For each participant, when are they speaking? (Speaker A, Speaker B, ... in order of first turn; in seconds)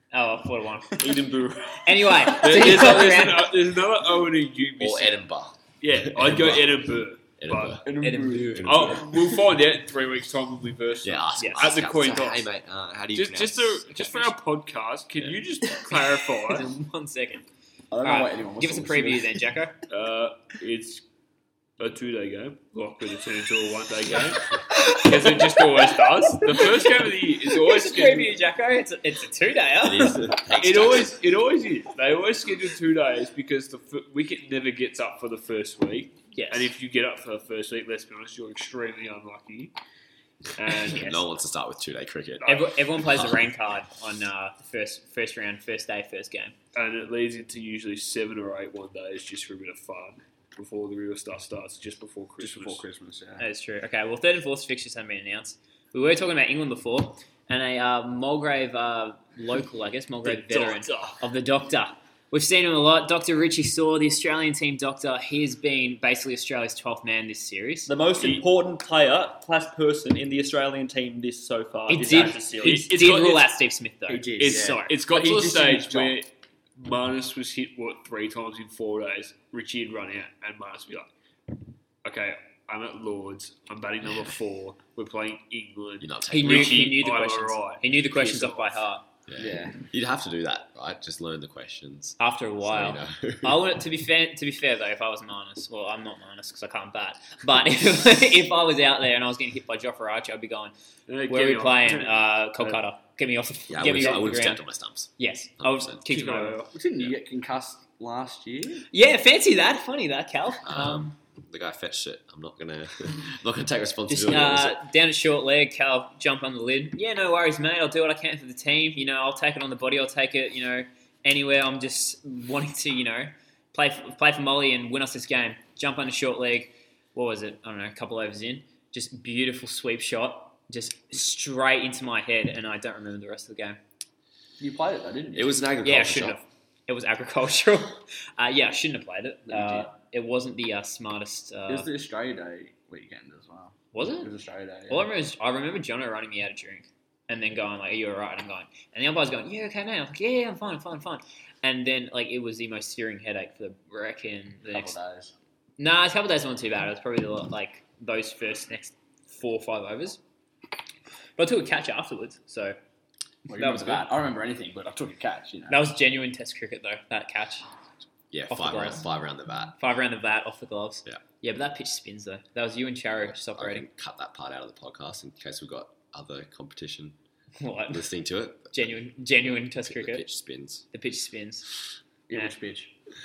Speaker A: 0.1-1.1, 1.8-3.5, 8.0-8.6, 11.4-11.7, 16.5-17.4, 18.0-19.8, 24.8-25.5, 27.5-30.4, 36.3-36.7, 40.9-41.2, 42.5-46.5, 53.4-67.9, 71.9-75.0, 86.3-89.0, 92.2-100.7, 101.3-104.7, 105.2-106.7, 108.9-111.1, 114.1-133.8, 135.8-141.9, 143.9-144.3, 144.9-155.0, 155.8-160.2, 161.4-162.8, 163.5-164.1, 165.7-167.7, 168.5-169.1, 169.8-173.9, 177.6-178.1, 178.7-180.2, 180.9-181.7
Speaker B: 1.0-2.4, 67.9-72.9
Speaker C: 2.3-5.2, 5.8-12.5, 13.1-16.7, 19.9-21.1, 21.8-28.4, 30.5-39.7, 40.6-41.2, 42.4-42.7, 46.7-52.8, 60.2-61.2, 68.2-68.5, 72.6-73.5, 74.4-81.1, 82.0-88.8, 101.1-102.8, 103.8-104.3, 106.0-106.7
Speaker D: 4.8-6.8, 7.4-7.9, 8.6-9.1, 11.0-14.4, 29.8-31.2, 40.9-42.5, 86.0-86.9, 89.3-93.7, 103.7-106.0, 110.6-114.8, 135.3-136.4, 168.3-169.8, 173.2-177.2, 177.9-178.9, 179.5-180.9
Speaker E: 7.9-8.8, 17.9-19.5, 52.4-53.4, 72.1-72.4, 74.1-76.2, 89.4-89.8, 106.7-108.9, 134.6-135.7, 139.5-139.9, 141.7-145.1, 154.7-155.3, 163.5-165.8, 182.3-182.9